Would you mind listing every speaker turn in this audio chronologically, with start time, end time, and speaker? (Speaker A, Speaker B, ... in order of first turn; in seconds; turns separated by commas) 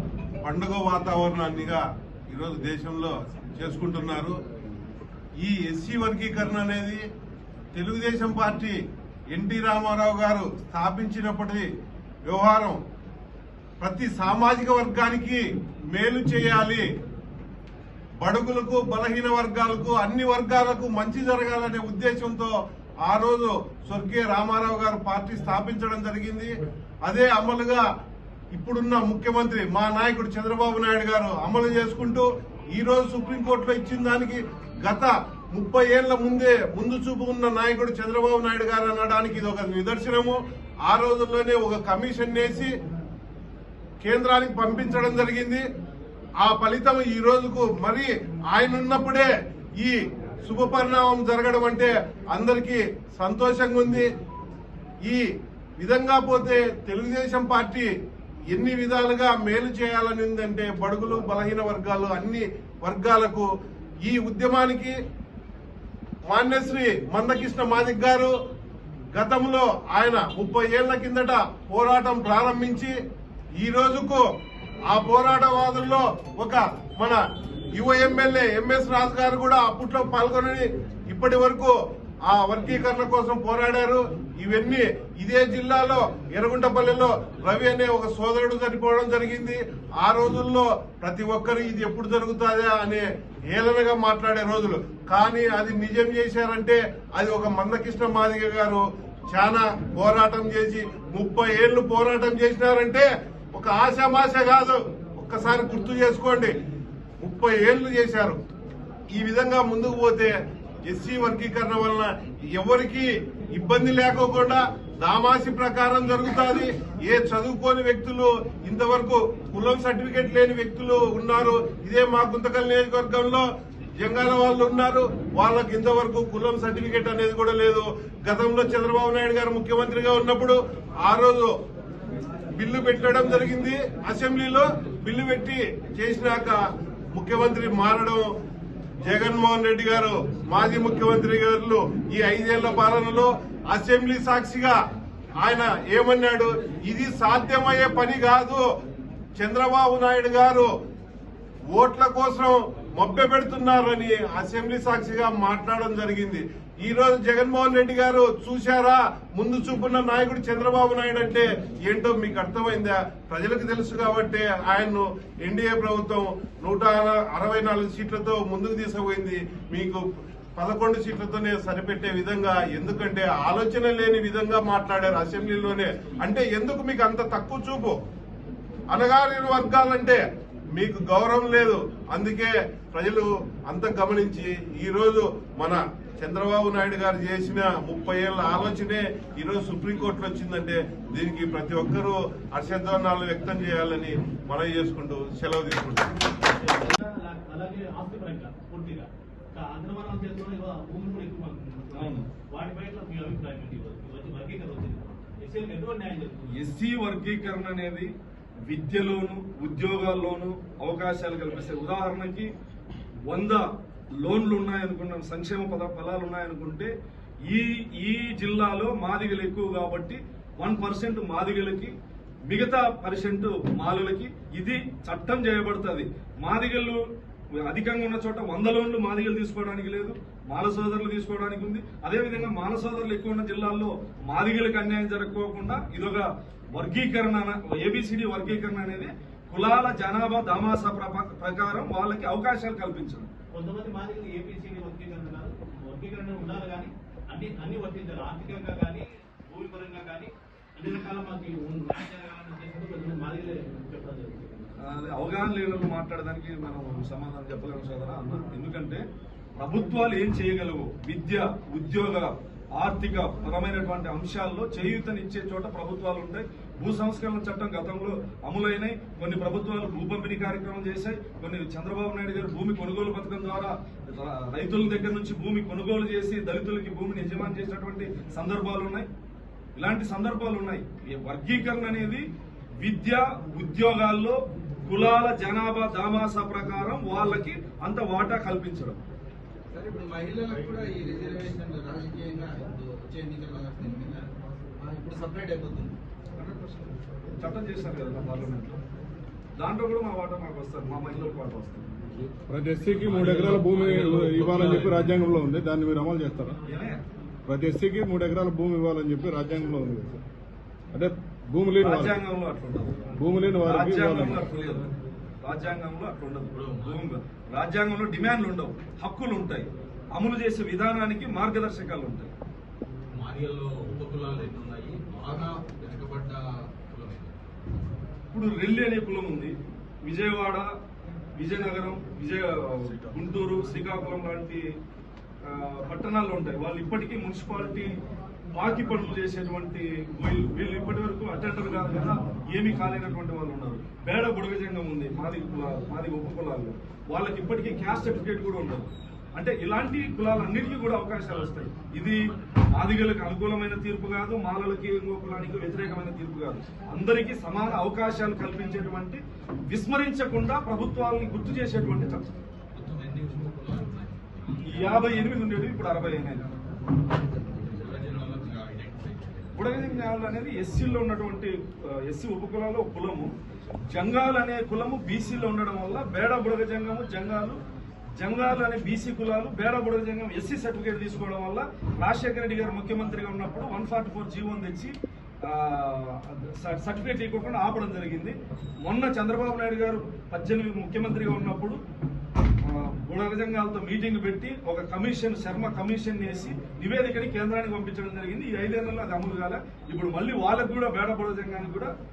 Speaker A: 0.4-4.4, Speaker A: 5.4-7.0, Speaker A: 7.7-8.8, Speaker A: 9.3-11.7, Speaker A: 12.3-12.8, Speaker A: 13.8-16.9, Speaker A: 18.2-27.8, Speaker A: 28.5-42.7, Speaker A: 44.0-45.6, Speaker A: 46.4-54.1, Speaker A: 55.8-57.9, Speaker A: 58.5-63.5, Speaker A: 64.0-65.0, Speaker A: 66.3-68.3, Speaker A: 69.1-72.9, Speaker A: 73.6-74.2, Speaker A: 74.9-77.2, Speaker A: 77.8-106.6, Speaker A: 107.2-108.4, Speaker A: 109.1-123.5, Speaker A: 124.0-131.6, Speaker A: 132.5-136.6, Speaker A: 137.1-138.3, Speaker A: 139.0-144.8, Speaker A: 145.4-148.6, Speaker A: 149.4-150.7, Speaker A: 151.7-170.0, Speaker A: 170.6-178.0, Speaker A: 178.9-180.2, Speaker A: 180.8-196.1, Speaker B: 196.4-206.6, Speaker C: 201.9-202.3, Speaker C: 206.5-208.1, Speaker C: 208.7-212.5, Speaker C: 213.3-213.7, Speaker C: 214.2-216.9, Speaker C: 217.5-221.9, Speaker C: 222.5-227.0, Speaker C: 227.6-243.3, Speaker B: 243.5-254.8, Speaker C: 254.8-259.0, Speaker C: 259.6-279.1, Speaker C: 279.8-282.3, Speaker C: 282.8-289.0, Speaker D: 289.7-296.0, Speaker C: 296.4-298.8, Speaker C: 299.6-301.9, Speaker E: 302.5-306.6, Speaker D: 302.9-305.2, Speaker C: 306.7-307.0, Speaker E: 307.5-310.2, Speaker E: 310.9-312.1, Speaker C: 311.8-313.1, Speaker E: 313.1-314.5, Speaker C: 313.6-322.3, Speaker D: 316.5-317.1, Speaker D: 323.1-327.4, Speaker C: 328.3-330.7, Speaker C: 331.4-334.6, Speaker C: 335.4-338.0, Speaker C: 338.5-352.2, Speaker C: 352.8-362.2, Speaker D: 362.7-365.1, Speaker C: 364.6-366.5, Speaker D: 367.4-369.7, Speaker C: 369.5-373.3, Speaker C: 373.9-377.6, Speaker C: 378.2-384.9, Speaker C: 385.4-391.8, Speaker C: 392.6-401.9